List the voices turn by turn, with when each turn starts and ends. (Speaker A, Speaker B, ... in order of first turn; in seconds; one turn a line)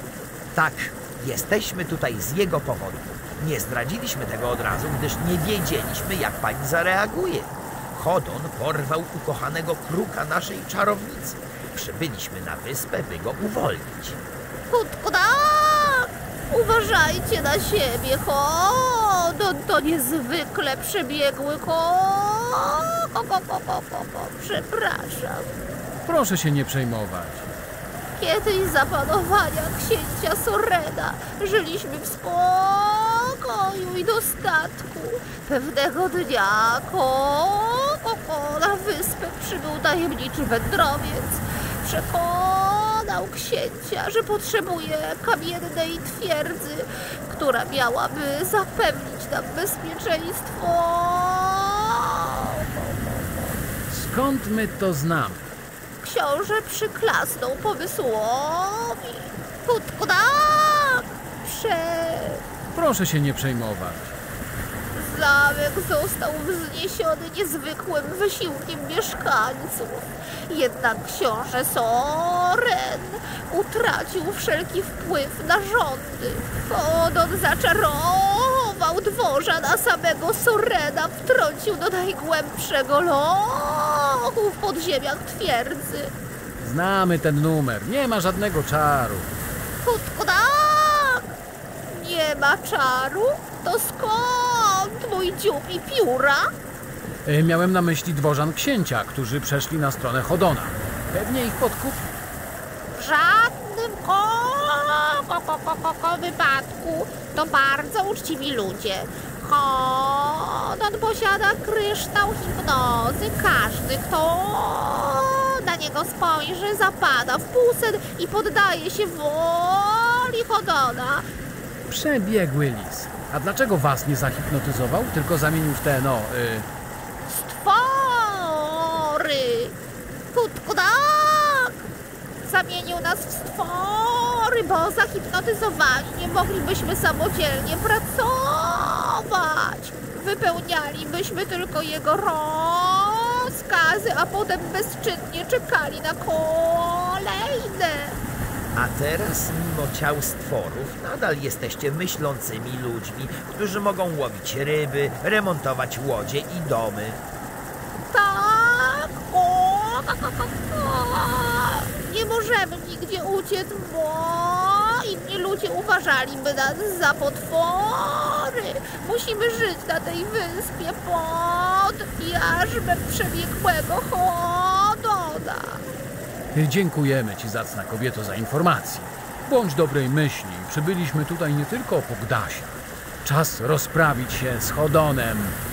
Speaker A: 0.5-14.2
Speaker B: 14.7-25.6
Speaker C: 26.1-27.5
Speaker B: 28.2-53.3
Speaker C: 53.9-55.5
Speaker B: 56.0-62.5
Speaker C: 62.7-64.1
Speaker B: 64.9-86.1
Speaker C: 86.6-89.3
Speaker B: 89.8-91.3
Speaker B: 91.9-96.5
Speaker C: 97.2-102.2
Speaker B: 102.9-121.3
Speaker C: 121.9-126.7
Speaker B: 127.3-129.8
Speaker B: 130.3-131.9
Speaker B: 132.4-148.2
Speaker A: 148.7-157.2
Speaker B: 158.1-175.8
Speaker C: 176.5-185.6